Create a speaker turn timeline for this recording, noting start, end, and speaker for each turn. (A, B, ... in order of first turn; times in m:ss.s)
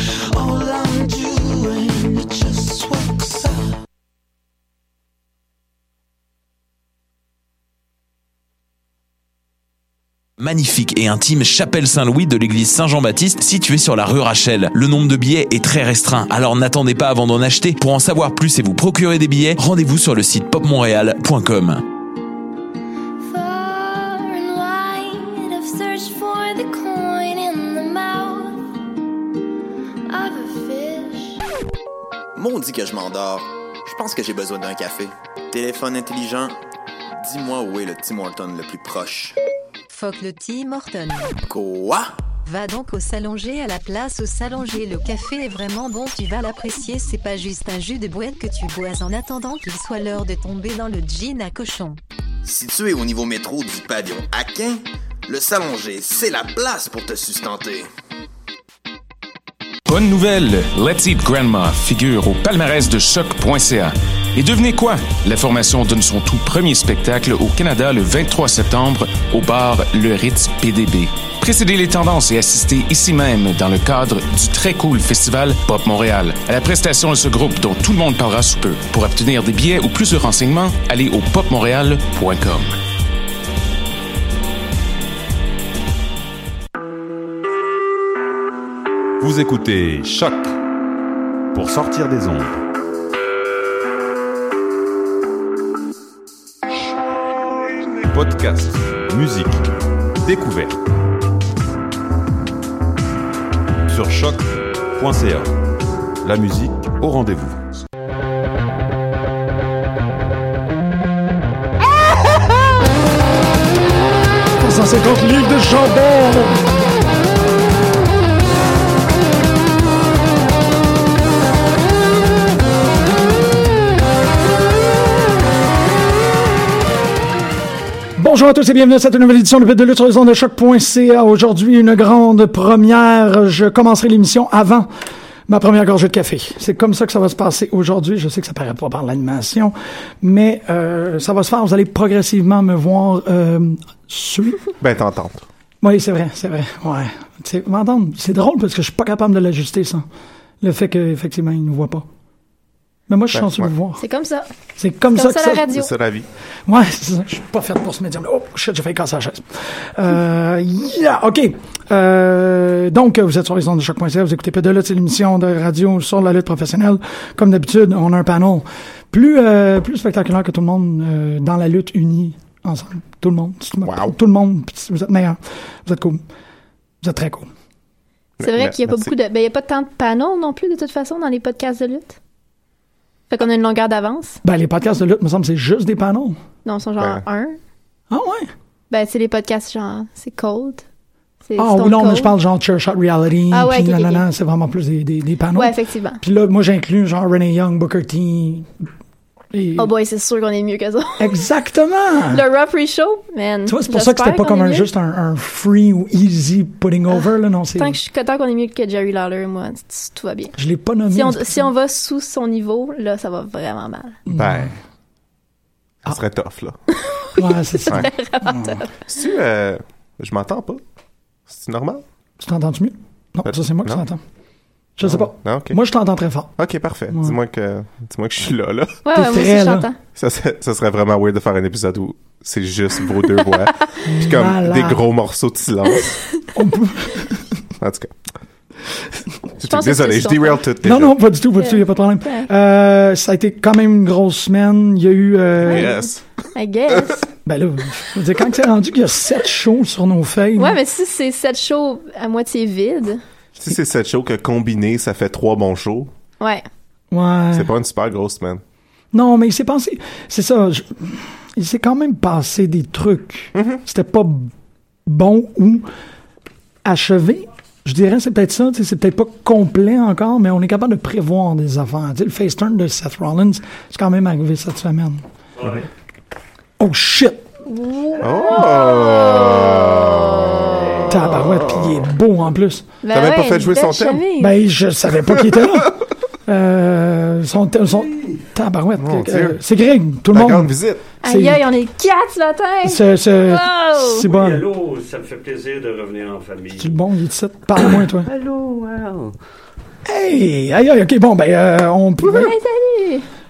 0:00.3-0:03.6 A
0:10.4-0:21.8 B
0:23.3-0:28.6 C
0:25.6-0:27.9 D
0:30.1-0:31.2 C
0:30.2-0:30.8 D
0:32.4-0:36.6 A
0:37.2-0:39.4 A
0:39.9-0:41.4 E
0:41.5-0:42.1 A
0:42.5-0:52.0 E
0:52.4-0:57.9 A
0:59.9-1:22.8 F
1:29.2-1:30.6 G
1:31.5-1:32.6 G
1:38.1-1:39.7 G
1:40.2-1:40.8 G
1:43.9-1:45.6 G
1:46.2-1:47.6 G
1:54.5-1:56.6 H
2:08.2-2:14.9 H
2:15.5-2:24.6 H
2:24.8-2:25.4 I
2:25.8-2:30.1 H
2:30.6-2:32.1 H
2:33.1-2:34.0 H
2:33.3-2:33.7 I
2:34.0-2:34.5 D
2:34.8-2:35.7 H
2:35.1-2:35.9 D
2:35.7-2:36.3 I
2:36.7-2:56.2 H
2:53.8-2:54.2 I
2:57.0-2:57.5 H
2:58.4-2:59.1 I
2:58.4-3:02.2 D
3:03.3-3:04.4 D
3:04.4-3:06.4 H
3:06.6-3:07.6 D
3:08.1-3:08.5 H
3:08.9-3:10.8 D
3:11.4-3:12.3 D
3:11.6-3:18.7 H
3:13.5-3:14.2 D
3:15.6-3:16.2 D
3:19.5-3:19.9 H
3:19.8-3:21.4 D
3:21.2-3:22.4 H
3:22.3-3:24.9 D
3:23.7-3:28.0 H
3:27.8-3:30.6 D
3:30.6-3:31.7 H
3:31.1-3:34.2 D
3:34.3-3:34.8 H
3:34.4-3:34.8 I
3:36.0-3:36.8 I
3:37.0-3:38.9 D
3:37.4-3:38.8 H
3:39.1-3:40.8 I
3:41.5-3:42.0 I
3:42.4-3:44.2 H
3:43.5-3:44.0 I
3:45.0-3:46.6 H
3:45.0-3:45.8 I
3:46.6-3:49.0 I
3:47.1-3:47.4 H
3:49.0-3:50.0 D
3:49.1-3:49.9 H
3:50.2-3:56.3 I
3:54.0-3:55.0 H
3:56.5-3:57.5 H
3:57.8-3:58.2 I
3:59.6-4:01.1 I
3:59.6-4:00.6 D
4:00.8-4:05.9 H
4:01.6-4:02.5 D
4:05.6-4:06.2 I
4:06.6-4:07.3 D
4:07.4-4:10.8 H
4:10.6-4:13.2 D
4:13.6-4:16.1 I
4:17.1-4:17.7 H
4:17.5-4:18.6 I
4:19.1-4:24.5 H
4:23.6-4:23.8 I
4:25.1-4:25.9 H
4:26.8-4:35.2 H
4:35.6-4:35.8 J
4:36.8-4:37.5 H
4:37.7-4:41.0 D
4:38.2-4:42.1 I
4:41.1-4:42.8 H
4:43.0-4:44.5 D
4:43.1-4:44.2 I
4:44.4-4:51.6 H
4:49.0-4:49.6 I
4:50.3-4:51.0 I
4:51.2-4:54.2 D
4:52.8-4:54.6 H
4:54.3-4:57.0 J
4:56.8-4:58.3 H
4:58.2-4:59.4 J
5:00.0-5:02.5 H
5:02.2-5:03.3 D